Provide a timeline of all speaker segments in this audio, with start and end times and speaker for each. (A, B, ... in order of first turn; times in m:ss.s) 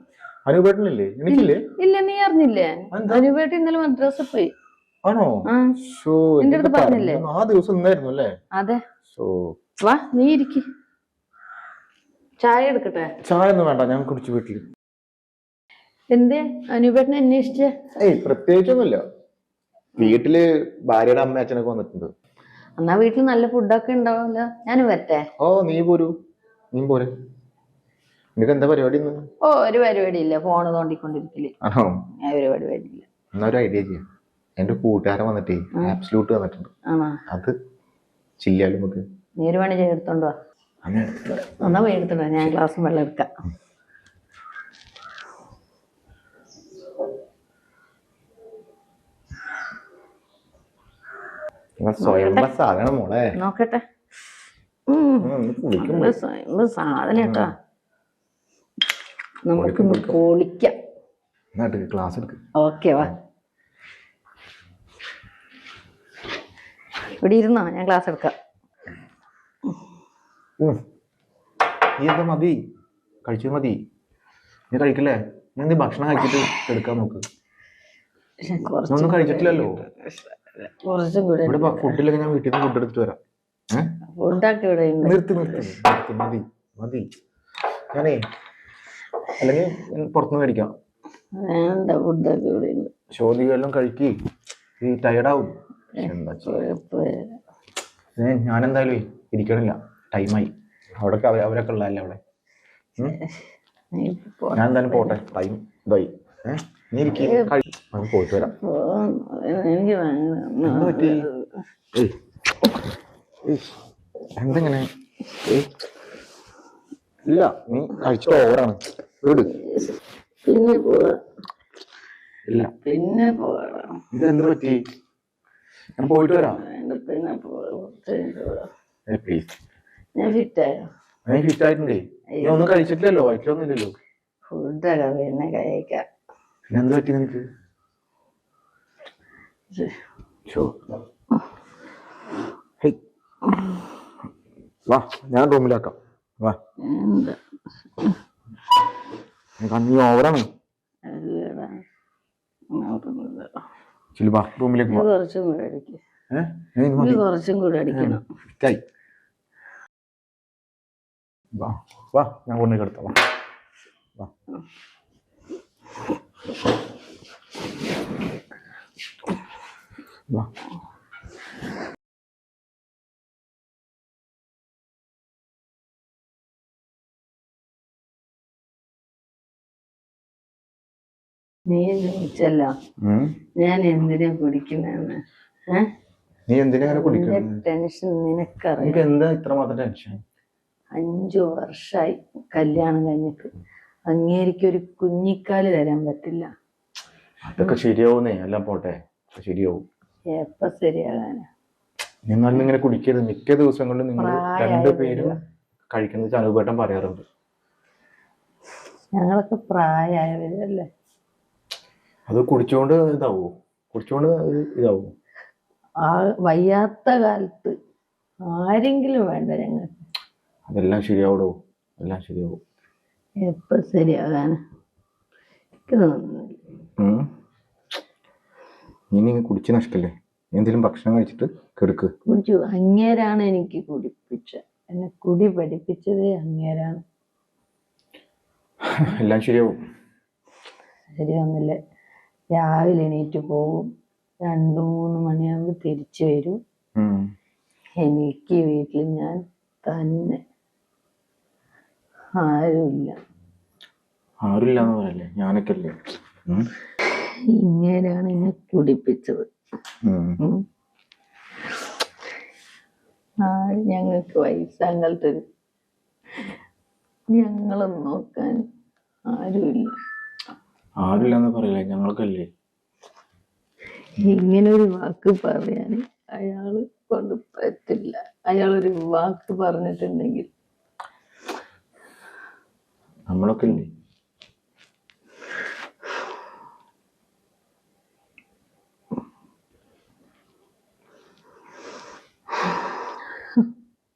0:00.5-0:01.6 A
0:01.3-0:04.5 B
0:02.9-0:03.3 A
0:05.0-0:08.3 A
0:05.5-0:05.8 B
0:06.4-0:07.2 B
0:08.6-0:08.8 B
0:09.1-0:09.5 A
0:09.8-0:10.6 B
0:12.4-0:13.1 B
0:13.2-0:14.7 A
0:16.1-0:17.7 B
0:18.0-0:19.0 A
0:20.0-0:22.1 A
0:22.8-0:25.2 B
0:25.4-0:26.1 A
0:26.7-0:27.1 A
0:28.4-0:29.2 A
0:29.4-0:31.5 B
0:31.6-0:32.0 A
0:32.2-0:33.1 B
0:33.3-0:34.0 A
0:34.6-0:36.7 A
0:36.9-0:37.2 B
0:37.3-0:37.5 A
0:38.4-0:39.0 A
0:39.4-0:40.4 B
0:40.8-0:41.5 A
0:41.4-0:43.3 B
0:51.8-0:53.3 A
0:52.0-0:52.5 B
0:53.4-0:53.8 B
0:54.9-0:57.5 B
0:55.2-0:56.2 A
0:57.2-0:57.5 A
0:59.4-1:00.8 B
0:59.6-1:00.2 A
1:01.6-1:02.4 A
1:02.6-1:03.1 B
1:07.2-1:08.3 B
1:12.0-1:12.6 A
1:13.2-1:13.8 A
1:14.7-1:17.2 A
1:18.4-1:22.0 B
1:18.9-1:19.8 A
1:21.5-1:23.2 A
1:24.2-1:25.8 B
1:25.0-1:27.1 A
1:27.9-1:28.2 A
1:29.4-1:30.7 A
1:31.4-1:32.9 B
1:33.1-1:34.1 A
1:34.8-1:36.6 A
1:36.0-1:37.4 B
1:38.2-1:42.2 A
1:43.0-1:45.2 B
1:44.6-1:48.5 A
1:47.2-1:47.6 B
1:48.4-1:51.5 B
1:50.6-1:51.3 A
1:53.4-1:53.7 A
1:54.4-1:55.7 A
1:57.3-1:59.6 A
1:59.5-2:01.2 B
2:02.5-2:02.7 A
2:02.7-2:04.0 B
2:04.1-2:04.8 A
2:06.0-2:06.6 A
2:06.5-2:08.7 B
2:09.1-2:09.5 A
2:10.2-2:10.9 B
2:11.3-2:14.0 A
2:12.3-2:12.7 B
2:14.5-2:16.0 B
2:16.7-2:17.4 A
2:19.7-2:20.0 B
2:20.5-2:20.8 A
2:24.9-2:26.6 A
2:26.8-2:27.4 B
2:29.6-2:30.5 A
2:31.1-2:31.8 B
2:32.7-2:33.5 B
2:34.2-2:35.1 A
2:34.9-2:36.0 B
2:36.3-2:37.2 A
2:37.0-2:38.2 B
2:37.9-2:38.8 A
2:41.6-2:43.2 A
3:01.7-3:02.7 B
3:03.0-3:03.4 A
3:03.6-3:05.9 B
3:06.5-3:07.6 A
3:06.9-3:09.0 B
3:08.8-3:10.2 A
3:10.9-3:13.5 B
3:14.1-3:16.5 B
3:17.4-3:19.8 A
3:20.3-3:21.5 B
3:22.3-3:25.4 A
3:24.2-3:25.4 B
3:25.9-3:27.2 A
3:29.2-3:30.9 B
3:32.3-3:35.1 A
3:36.0-3:37.8 B
3:38.5-3:39.9 B
3:40.7-3:42.6 A
3:43.4-3:44.6 B
3:45.9-3:46.6 B
3:47.0-3:47.2 A
3:49.1-3:52.1 A
3:52.3-3:57.0 B
3:58.9-3:59.8 A
4:01.1-4:01.8 B
4:02.5-4:03.9 B
4:04.4-4:06.6 B
4:07.0-4:07.2 A
4:08.0-4:10.4 B
4:12.4-4:13.2 B
4:14.4-4:16.0 A
4:17.0-4:19.5 B
4:20.0-4:20.4 A
4:23.4-4:25.4 B
4:27.3-4:28.7 B
4:29.3-4:30.0 B
4:31.0-4:32.5 A
4:34.2-4:40.5 B
4:43.3-4:43.9 A